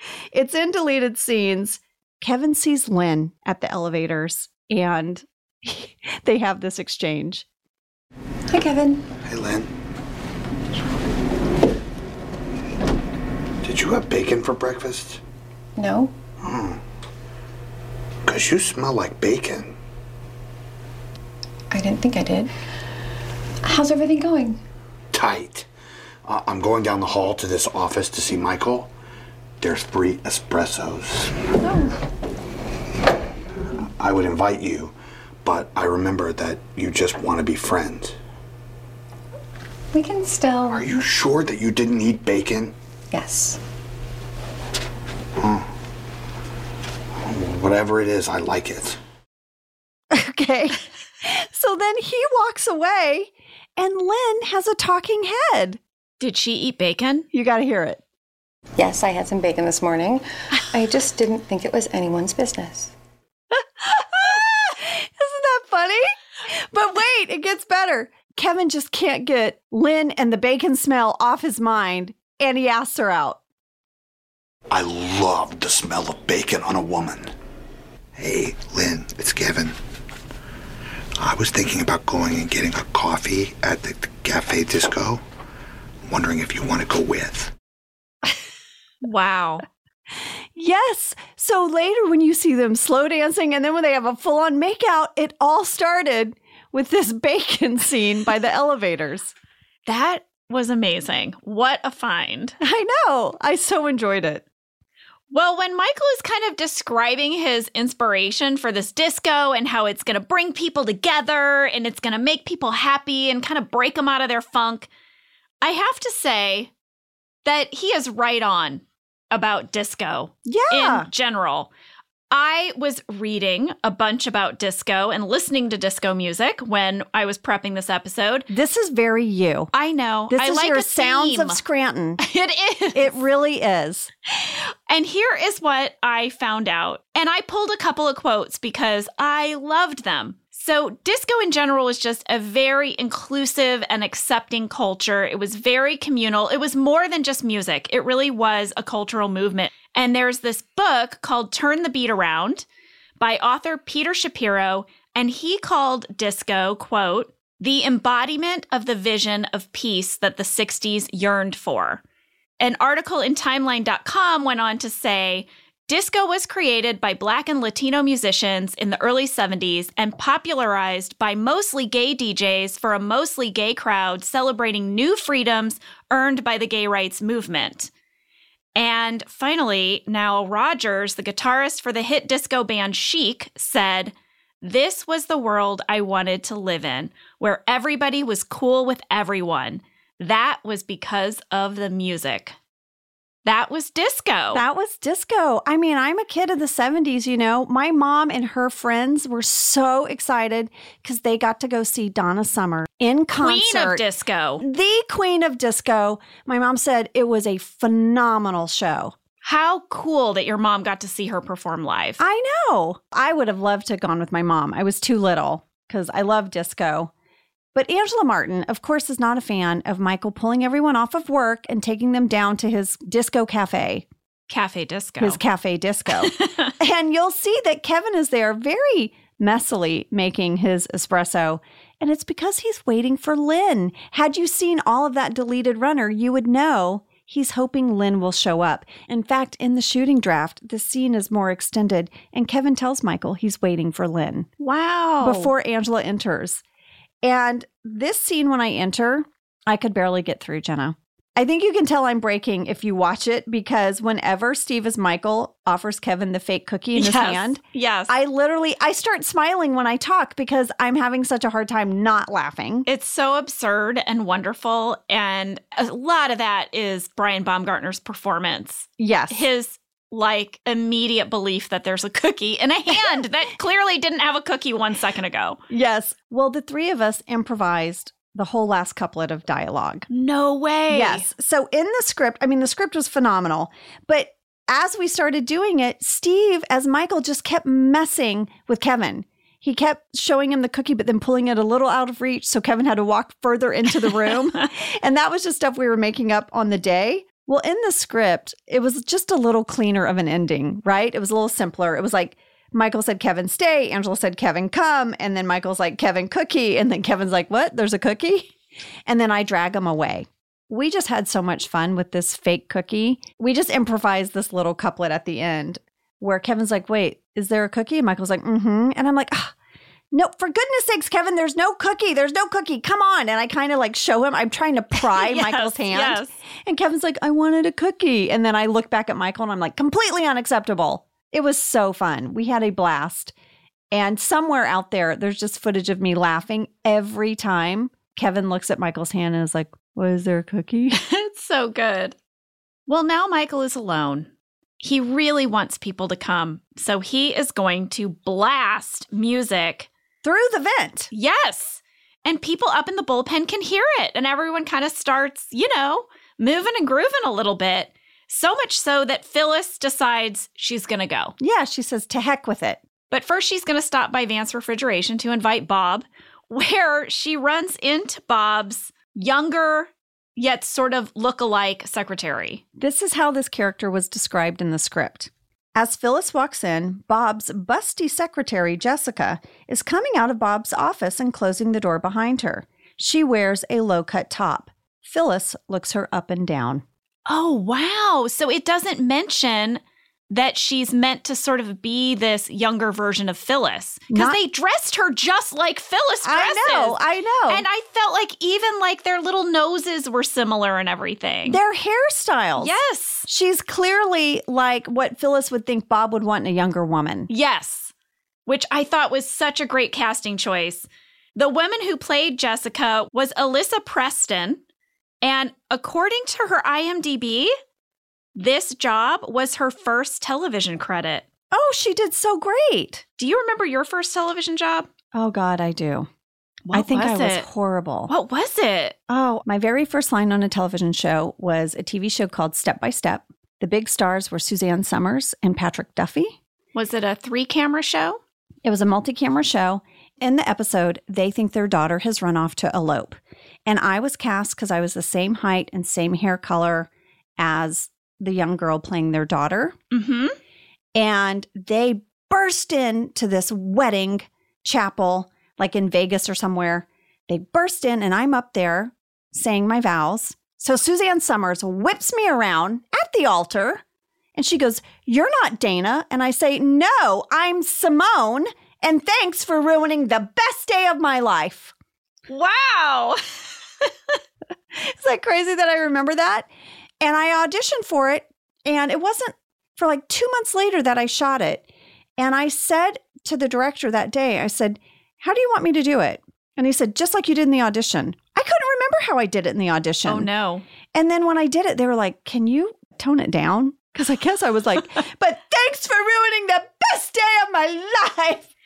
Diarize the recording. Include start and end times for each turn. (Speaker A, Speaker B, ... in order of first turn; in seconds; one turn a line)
Speaker A: 0.3-7.4
Speaker B: 8.5-9.1
Speaker C: 9.2-9.7
Speaker C: 13.6-15.2
Speaker B: 15.8-16.1
Speaker C: 16.4-16.8
Speaker C: 18.2-19.7
Speaker B: 21.7-22.5
Speaker B: 23.6-24.6
Speaker C: 25.1-25.7
Speaker C: 26.2-28.9
Speaker C: 29.6-31.4
Speaker B: 31.6-31.9
Speaker C: 34.0-38.1
Speaker B: 39.9-40.8
Speaker C: 40.7-42.7
Speaker B: 43.1-43.6
Speaker C: 45.4-45.7
Speaker C: 47.2-49.0
Speaker A: 50.1-55.8
Speaker D: 56.2-57.3
Speaker A: 57.3-58.0
Speaker B: 58.8-62.9
Speaker A: 63.6-73.4
Speaker C: 74.7-77.3
Speaker C: 78.2-79.7
Speaker C: 81.2-85.2
Speaker C: 86.1-87.5
Speaker D: 89.0-89.6
Speaker A: 90.5-99.3
Speaker D: 99.8-102.5
Speaker A: 102.6-104.4
Speaker D: 105.3-114.9
Speaker D: 115.6-116.7
Speaker D: 117.4-121.7
Speaker A: 120.5-121.1
Speaker D: 122.3-128.5
Speaker A: 128.5-129.7
Speaker D: 129.7-131.6
Speaker A: 130.3-132.2
Speaker D: 132.2-133.2
Speaker A: 132.9-134.1
Speaker D: 134.3-152.7
Speaker D: 153.2-162.0
Speaker D: 162.6-177.9
Speaker D: 178.7-192.6
Speaker D: 193.4-194.6
Speaker A: 194.5-204.0
Speaker D: 203.3-204.6
Speaker A: 204.6-209.1
Speaker D: 209.4-212.2
Speaker A: 212.2-217.1
Speaker A: 217.7-224.1
Speaker D: 224.5-225.4
Speaker A: 225.2-244.5
Speaker D: 226.2-226.7
Speaker D: 244.6-245.5
Speaker A: 245.2-246.6
Speaker A: 247.2-262.9
Speaker D: 256.9-258.1
Speaker D: 262.9-275.6
Speaker A: 269.0-269.4
Speaker A: 275.7-280.1
Speaker D: 280.1-281.3
Speaker A: 280.9-308.5
Speaker A: 309.1-319.5
Speaker A: 320.1-333.3
Speaker D: 324.9-326.3
Speaker A: 333.9-341.0
Speaker D: 340.9-342.1
Speaker D: 342.9-349.9
Speaker A: 350.2-351.1
Speaker D: 351.1-361.3
Speaker A: 361.4-362.8
Speaker D: 363.1-372.6
Speaker A: 372.8-386.8
Speaker D: 387.2-401.6
Speaker A: 394.1-394.4
Speaker A: 396.2-397.6
Speaker A: 401.4-402.7
Speaker D: 402.6-403.3
Speaker A: 403.3-407.3
Speaker D: 407.3-407.9
Speaker D: 408.4-414.6
Speaker D: 415.2-417.5
Speaker D: 418.3-421.2
Speaker A: 421.5-423.0
Speaker D: 423.2-424.9
Speaker A: 425.1-426.1
Speaker D: 426.6-427.5
Speaker A: 426.7-428.1
Speaker D: 428.1-429.0
Speaker A: 429.1-436.4
Speaker D: 436.7-438.2
Speaker A: 438.6-449.8
Speaker D: 449.9-450.4
Speaker A: 450.9-463.8
Speaker A: 464.3-471.7
Speaker D: 472.3-474.1
Speaker A: 474.7-476.5
Speaker A: 477.0-481.6
Speaker A: 482.2-490.3
Speaker D: 490.1-490.6
Speaker A: 490.9-498.5